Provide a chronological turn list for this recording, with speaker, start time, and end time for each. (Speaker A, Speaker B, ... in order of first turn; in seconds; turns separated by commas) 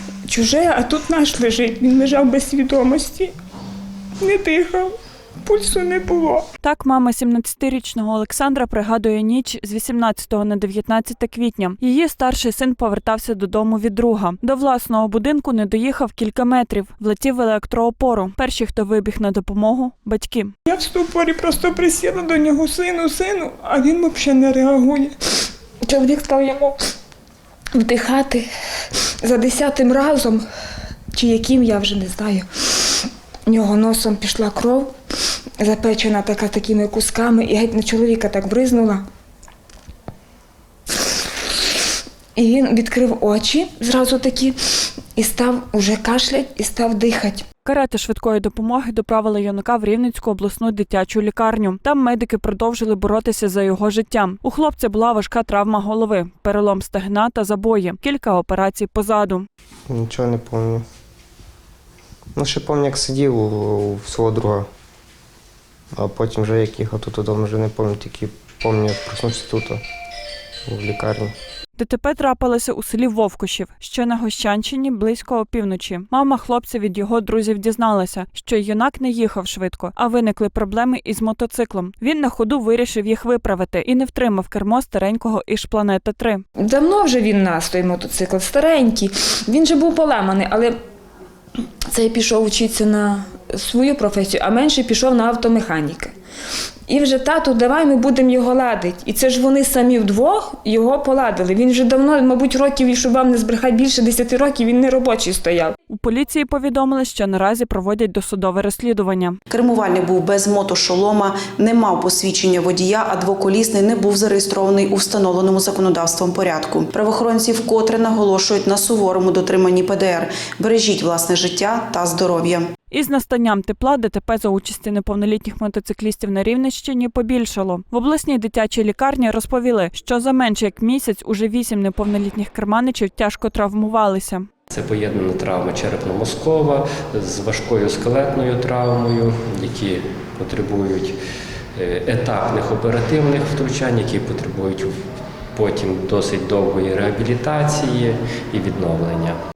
Speaker A: 0.3-3.3, Speaker A: 4.2-6.5, Speaker B: 6.6-20.5, Speaker A: 20.7-25.2, Speaker A: 25.9-26.8, Speaker A: 27.7-28.5, Speaker A: 29.2-30.4, Speaker A: 31.1-34.9, Speaker A: 35.6-39.0, Speaker A: 42.4-44.6, Speaker A: 45.1-47.5, Speaker B: 47.6-59.5, Speaker C: 59.9-60.8, Speaker C: 62.4-64.7, Speaker C: 65.9-69.8, Speaker C: 70.7-71.3, Speaker B: 71.8-86.4, Speaker A: 86.6-90.8, Speaker A: 91.9-96.1, Speaker A: 96.9-105.7, Speaker B: 105.9-109.4, Speaker D: 109.5-122.7, Speaker B: 122.9-134.5, Speaker E: 134.7-141.2, Speaker E: 141.8-144.9, Speaker E: 145.5-149.3